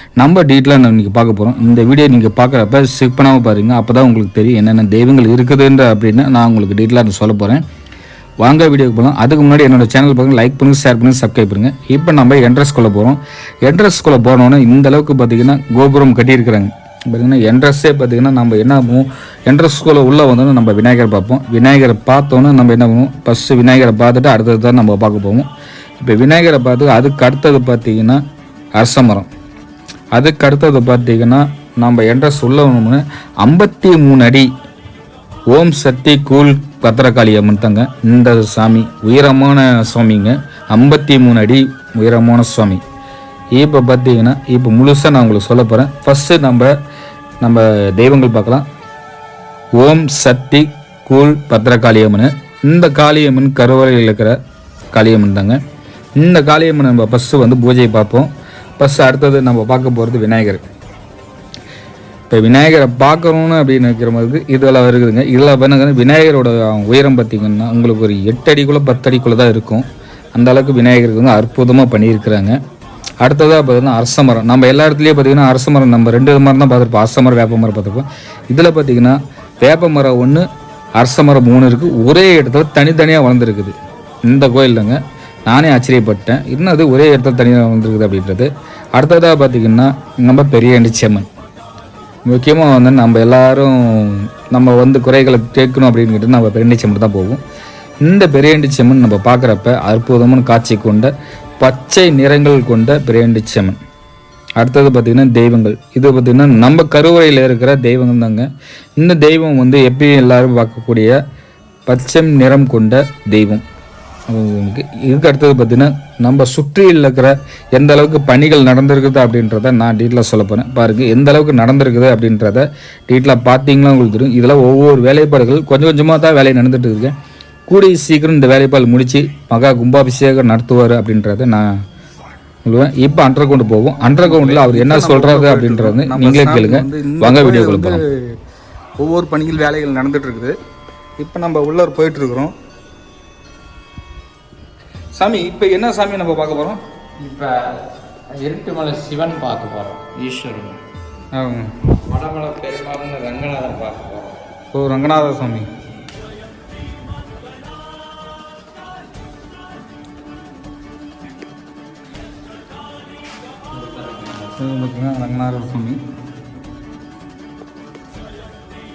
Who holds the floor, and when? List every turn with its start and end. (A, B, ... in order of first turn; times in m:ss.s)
0:00.2-0:07.6 A
0:08.4-0:25.5 A
0:26.0-0:28.2 A
0:28.8-0:29.3 A
0:30.1-0:34.5 A
0:35.5-0:42.8 A
0:43.5-0:46.7 A
0:47.4-0:48.6 A
0:49.7-0:54.3 A
0:54.9-0:55.6 A
0:56.2-1:00.6 A
1:02.3-1:12.5 A
1:13.2-1:20.4 A
1:21.0-1:23.7 A
1:24.2-1:31.3 A
1:32.3-1:37.4 A
1:38.0-1:43.8 A
1:44.6-1:48.4 A
1:49.0-1:51.2 A
1:51.9-1:53.6 A
1:54.3-2:07.1 A
2:07.7-2:11.7 A
2:12.6-2:18.0 A
2:14.2-2:18.4 B
2:19.0-2:20.6 B
2:21.2-2:22.5 B
2:25.1-2:26.8 B
2:27.2-2:27.8 C
2:28.4-2:30.8 C
2:31.3-2:31.7 B
2:31.8-2:34.4 C
2:34.7-2:35.7 B
2:43.7-2:44.5 C
2:44.6-2:46.0 B